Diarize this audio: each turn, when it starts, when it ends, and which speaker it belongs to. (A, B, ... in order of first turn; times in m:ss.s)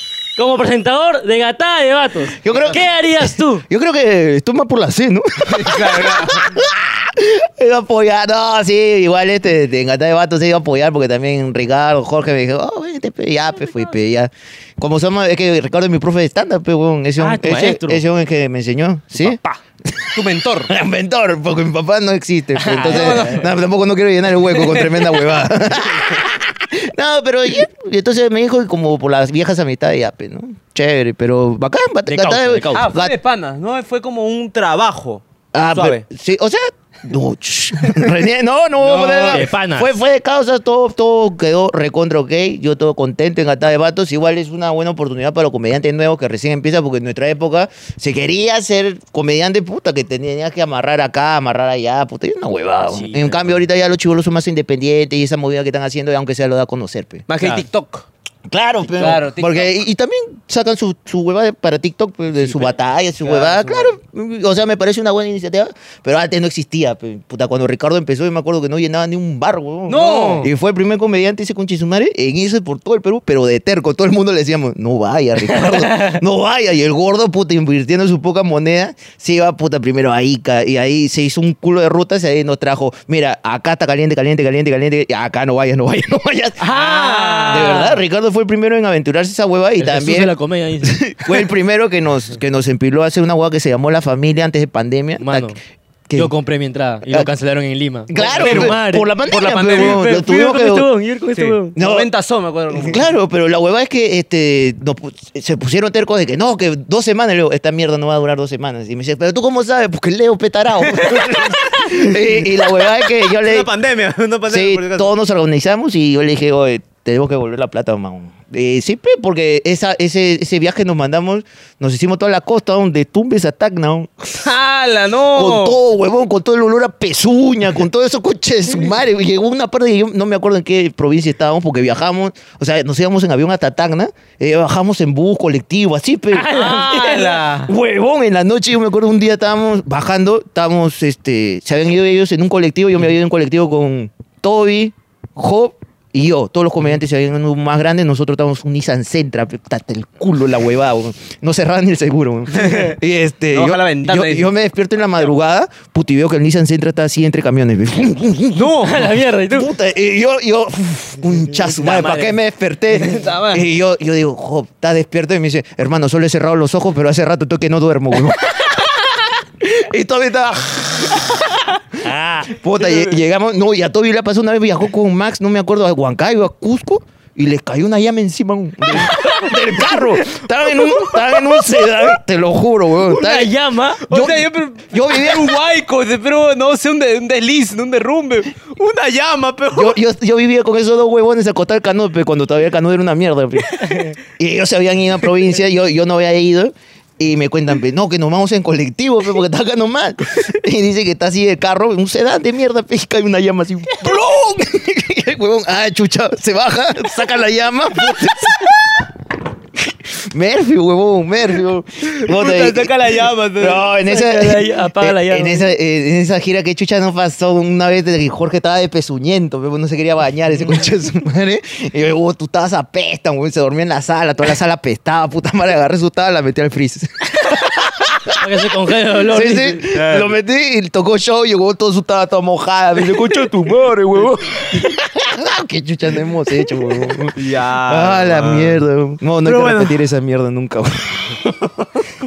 0:00.4-0:03.6 A
0:02.4-0:33.1 B
0:02.5-0:02.8 C
0:05.5-0:06.6 C
0:17.2-0:18.0 A
0:19.2-0:19.6 A
0:20.1-0:20.7 C
0:22.5-0:23.4 A
0:22.8-0:23.5 C
0:24.5-0:25.0 C
0:32.1-0:32.9 A
0:32.7-0:36.0 C
0:35.5-0:57.2 B
0:38.8-0:39.4 C
0:39.3-0:39.9 A
0:52.9-0:53.5 A
0:57.3-0:58.0 C
0:58.5-1:26.7 B
0:58.9-0:59.7 C
1:03.2-1:03.9 C
1:09.9-1:10.5 C
1:10.0-1:10.4 A
1:15.5-1:16.2 A
1:26.6-1:27.9 C
1:26.7-1:28.0 A
1:27.5-1:35.5 B
1:29.8-1:31.3 A
1:35.2-1:35.6 A
1:36.1-1:41.8 A
1:38.1-1:40.9 B
1:38.1-1:40.3 C
1:41.3-1:43.1 C
1:41.8-1:42.1 B
1:42.7-1:53.7 B
1:50.9-1:52.1 C
1:52.6-1:55.1 C
1:54.5-2:04.5 B
2:04.3-2:05.8 C
2:05.3-2:51.6 B
2:16.3-2:17.6 A
2:16.5-2:17.7 C
2:32.5-2:33.0 C
2:33.5-2:34.5 C
2:38.5-2:39.1 C
2:38.8-2:39.7 A
2:41.6-2:42.3 A
2:41.8-2:42.3 C
2:42.9-2:43.6 C
2:52.0-2:52.5 A
2:52.4-3:03.5 B
2:59.0-2:59.5 A
3:03.0-3:04.0 A
3:04.1-3:05.6 B
3:04.1-3:10.0 C
3:09.7-3:29.0 B
3:29.8-3:32.9 B
3:32.0-3:33.8 C
3:33.6-3:48.4 B
3:34.0-3:35.7 A
3:48.3-3:49.9 A
3:49.2-4:01.8 B
3:49.9-3:50.3 C
3:57.3-3:58.8 C
3:59.4-4:00.0 C